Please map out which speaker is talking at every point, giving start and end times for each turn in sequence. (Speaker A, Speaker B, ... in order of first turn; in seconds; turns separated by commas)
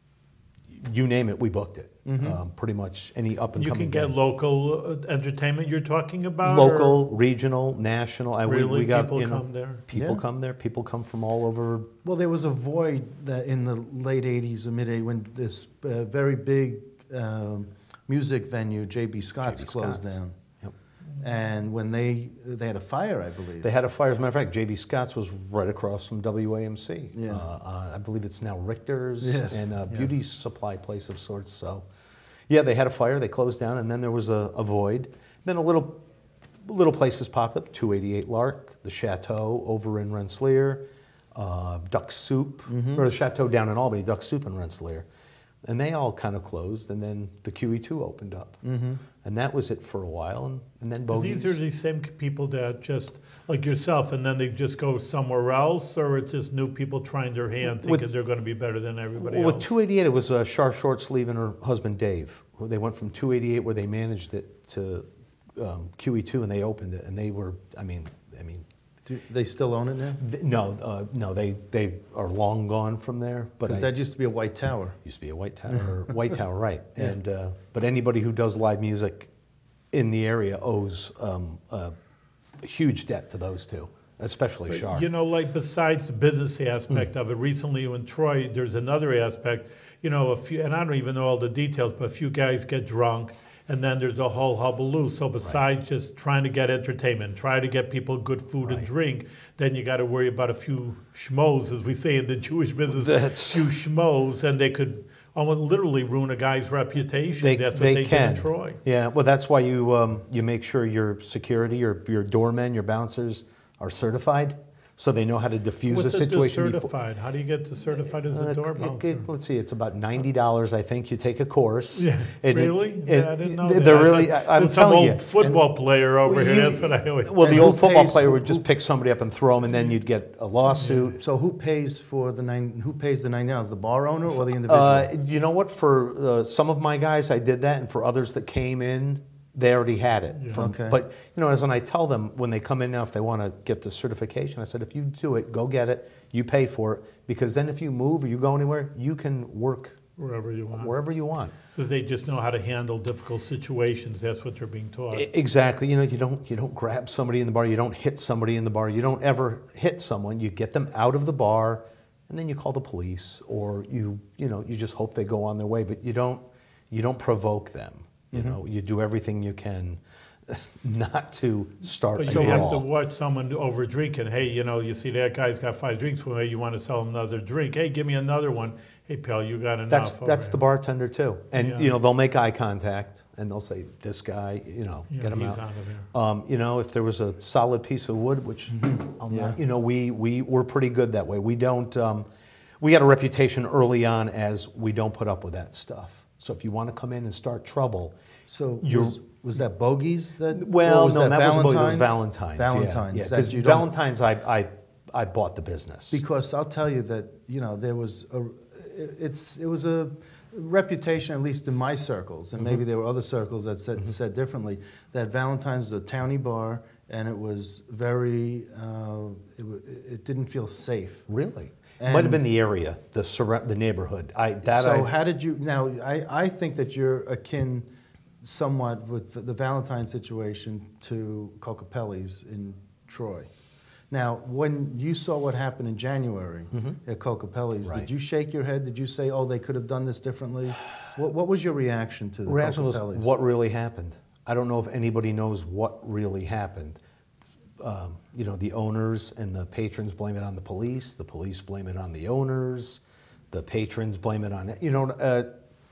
Speaker A: 0.7-4.1, Speaker B: 2.0-2.4, Speaker C: 3.6-7.0, Speaker A: 6.4-11.9, Speaker C: 8.4-9.8, Speaker B: 9.9-10.2, Speaker B: 12.0-20.3, Speaker A: 19.4-20.7, Speaker B: 21.2-23.7, Speaker A: 23.6-31.9, Speaker B: 27.1-27.4, Speaker B: 29.2-30.2, Speaker A: 32.5-36.0, Speaker A: 36.6-45.1, Speaker B: 42.7-43.0, Speaker A: 45.6-48.6, Speaker B: 48.6-49.0, Speaker A: 49.2-51.6, Speaker C: 51.1-59.7, Speaker A: 57.6-58.1, Speaker A: 59.2-68.7, Speaker B: 69.0-70.2, Speaker A: 70.2-73.9, Speaker B: 73.6-75.0, Speaker A: 75.0-79.3, Speaker B: 75.7-76.1, Speaker A: 79.9-81.9, Speaker A: 82.6-85.1, Speaker C: 84.7-108.8, Speaker A: 102.9-103.7, Speaker A: 107.4-116.9, Speaker C: 115.9-119.3, Speaker A: 117.9-125.2, Speaker C: 122.0-127.6, Speaker A: 126.2-131.2, Speaker B: 127.4-128.6, Speaker C: 130.8-131.1, Speaker B: 131.2-135.1, Speaker A: 134.6-150.0, Speaker B: 140.5-141.0, Speaker C: 150.2-150.9, Speaker A: 150.7-151.5, Speaker C: 151.7-155.3, Speaker A: 155.1-172.8, Speaker B: 168.3-168.6, Speaker C: 172.2-180.6, Speaker B: 172.3-172.7, Speaker A: 179.9-192.3, Speaker C: 181.5-181.9, Speaker C: 185.1-186.1, Speaker B: 188.7-189.6, Speaker A: 192.8-198.2, Speaker B: 198.5-203.9, Speaker A: 198.8-199.2, Speaker A: 200.5-206.2, Speaker B: 206.1-221.3, Speaker A: 221.3-225.1, Speaker B: 222.0-222.4, Speaker B: 224.7-227.8, Speaker B: 228.4-233.5, Speaker B: 234.1-243.3, Speaker A: 237.8-238.1, Speaker A: 242.5-247.0, Speaker A: 247.8-255.5